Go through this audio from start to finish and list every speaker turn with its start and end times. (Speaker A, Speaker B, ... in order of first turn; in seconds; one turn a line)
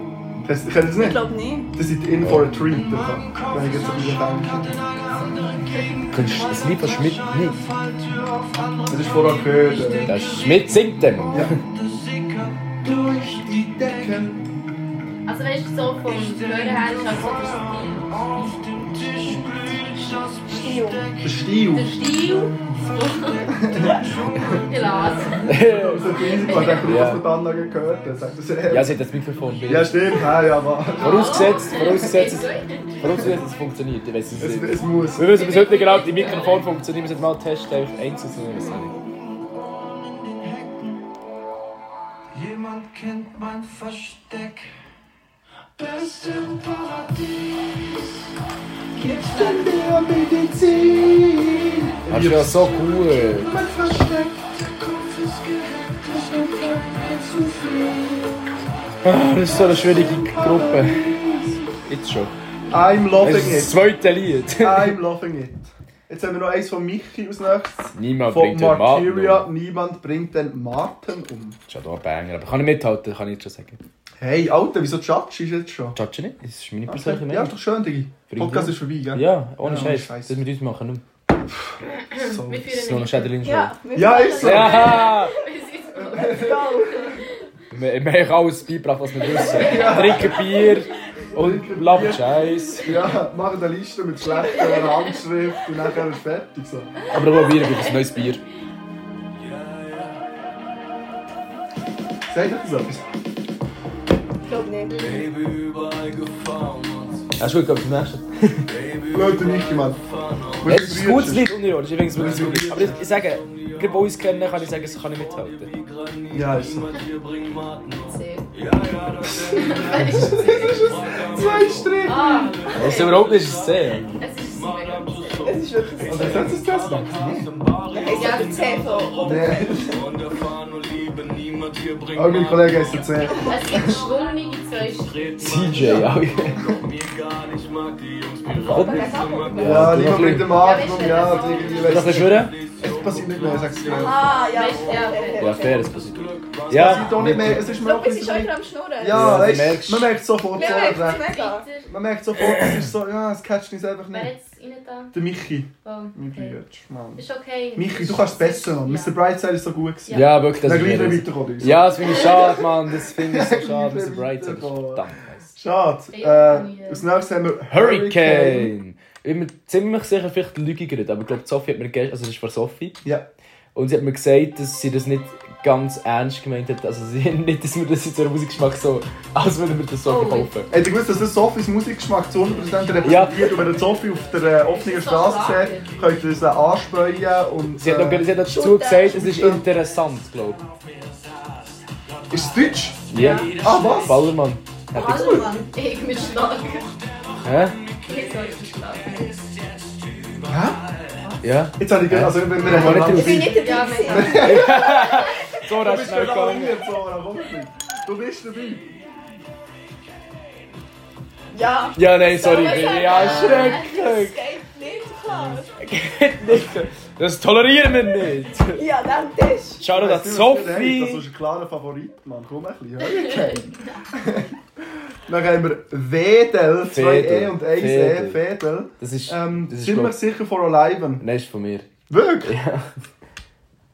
Speaker A: 0.4-4.8
Speaker B: 0.9-1.7
Speaker C: 2.2-2.6
Speaker D: 2.8-14.5
Speaker C: 6.1-7.7
Speaker A: 8.9-10.2
Speaker C: 10.0-11.6
Speaker A: 13.9-14.3
Speaker E: 15.3-18.5
Speaker D: 16.1-21.4
Speaker B: 20.5-21.1
Speaker A: 21.2-21.9
Speaker E: 21.7-23.9
Speaker D: 22.0-26.5
Speaker A: 23.5-24.5
Speaker E: 24.6-25.5
Speaker C: 25.4-27.3
Speaker A: 25.5-29.0
Speaker E: 26.3-26.9
Speaker C: 28.7-30.4
Speaker A: 29.7-32.2
Speaker E: 31.0-33.0
Speaker C: 31.0-39.0
Speaker A: 33.0-33.4
Speaker A: 34.4-35.4
Speaker E: 35.2-36.7
Speaker D: 38.8-41.1
Speaker D: 42.3-44.7
Speaker D: 45.8-48.1
Speaker D: 49.0-49.9
Speaker B: 49.0-49.6
Speaker A: 49.3-52.8
Speaker C: 52.1-53.5
Speaker A: 53.4-54.5
Speaker D: 54.6-58.0
Speaker A: 56.1-58.3
Speaker C: 59.0-61.2
Speaker A: 60.1-61.6
Speaker C: 61.9-62.3
Speaker A: 62.7-63.8
Speaker C: 63.2-65.0
Speaker A: 64.6-71.6
Speaker C: 68.0-69.5
Speaker C: 71.7-73.8
Speaker A: 74.2-76.0
Speaker C: 76.0-77.5
Speaker A: 76.9-80.4
Speaker C: 78.3-81.0
Speaker A: 81.5-82.8
Speaker E: 82.0-83.4
Speaker C: 82.7-83.8
Speaker B: 83.4-85.1
Speaker A: 83.9-85.0
Speaker C: 84.4-85.3
Speaker E: 84.6-87.2
Speaker A: 85.9-87.2
Speaker B: 86.2-87.1
Speaker C: 87.7-93.1
Speaker E: 89.3-90.6
Speaker A: 89.4-90.5
Speaker A: 91.3-96.9
Speaker E: 94.3-95.2
Speaker E: 97.0-98.3
Speaker C: 97.1-98.4
Speaker D: 99.5-100.1
Speaker A: 102.3-103.0
Speaker B: 104.5-105.1
Speaker E: 104.9-105.3
Speaker D: 105.0-107.3
Speaker C: 107.4-108.7
Speaker D: 108.7-110.5
Speaker A: 109.1-110.0
Speaker A: 110.5-111.6
Speaker C: 110.7-115.7
Speaker A: 112.2-113.0
Speaker D: 112.2-114.0
Speaker D: 115.7-133.0
Speaker A: 116.3-117.0
Speaker E: 118.0-118.5
Speaker A: 119.3-122.5
Speaker E: 119.5-120.9
Speaker E: 122.0-123.3
Speaker C: 122.8-124.2
Speaker E: 124.2-125.3
Speaker B: 125.3-126.6
Speaker A: 126.0-127.5
Speaker B: 127.9-130.0
Speaker E: 128.1-128.8
Speaker A: 129.2-130.0
Speaker A: 132.1-134.0
Speaker E: 133.4-135.6
Speaker D: 134.8-140.1
Speaker C: 135.4-136.8
Speaker C: 138.6-140.7
Speaker B: 138.7-140.0
Speaker A: 139.6-144.3
Speaker E: 140.5-142.2
Speaker D: 141.4-147.6
Speaker C: 141.8-142.6
Speaker B: 143.9-146.0
Speaker E: 144.4-145.9
Speaker C: 145.3-147.7
Speaker A: 146.7-154.3
Speaker B: 147.7-149.5
Speaker C: 149.1-150.2
Speaker B: 150.5-151.7
Speaker E: 150.6-151.9
Speaker C: 152.4-152.8
Speaker E: 154.1-155.2
Speaker A: 155.1-162.6
Speaker E: 155.8-156.6
Speaker E: 157.2-159.2
Speaker C: 160.1-165.6
Speaker E: 162.0-162.6
Speaker A: 163.1-165.1
Speaker A: 165.6-168.7
Speaker E: 166.1-167.0
Speaker C: 167.7-173.0
Speaker C: 173.8-180.7
Speaker E: 180.1-180.6
Speaker A: 180.7-188.3
Speaker C: 183.0-183.7
Speaker E: 184.7-185.9
Speaker C: 187.8-190.6
Speaker B: 188.4-189.2
Speaker A: 189.0-189.6
Speaker A: 192.3-193.0
Speaker D: 192.5-193.6
Speaker C: 193.1-195.5
Speaker E: 193.2-193.5
Speaker A: 193.6-194.3
Speaker E: 194.9-196.9
Speaker A: 195.0-195.4
Speaker D: 196.9-198.7
Speaker C: 197.4-197.8
Speaker E: 198.1-199.3
Speaker A: 200.4-200.8
Speaker C: 201.4-203.6
Speaker A: 201.8-204.9
Speaker B: 202.8-205.1
Speaker E: 203.5-204.8
Speaker C: 204.3-206.8
Speaker A: 205.8-208.9
Speaker B: 211.5-215.8
Speaker C: 211.9-214.4
Speaker E: 212.2-214.0
Speaker C: 215.8-218.8
Speaker B: 218.8-219.8
Speaker C: 219.8-221.2
Speaker A: 219.9-224.6
Speaker E: 223.1-224.0
Speaker A: 225.3-231.2
Speaker C: 226.9-228.4
Speaker C: 229.0-230.2
Speaker C: 231.2-231.9
Speaker A: 232.1-232.5
Speaker C: 232.4-232.9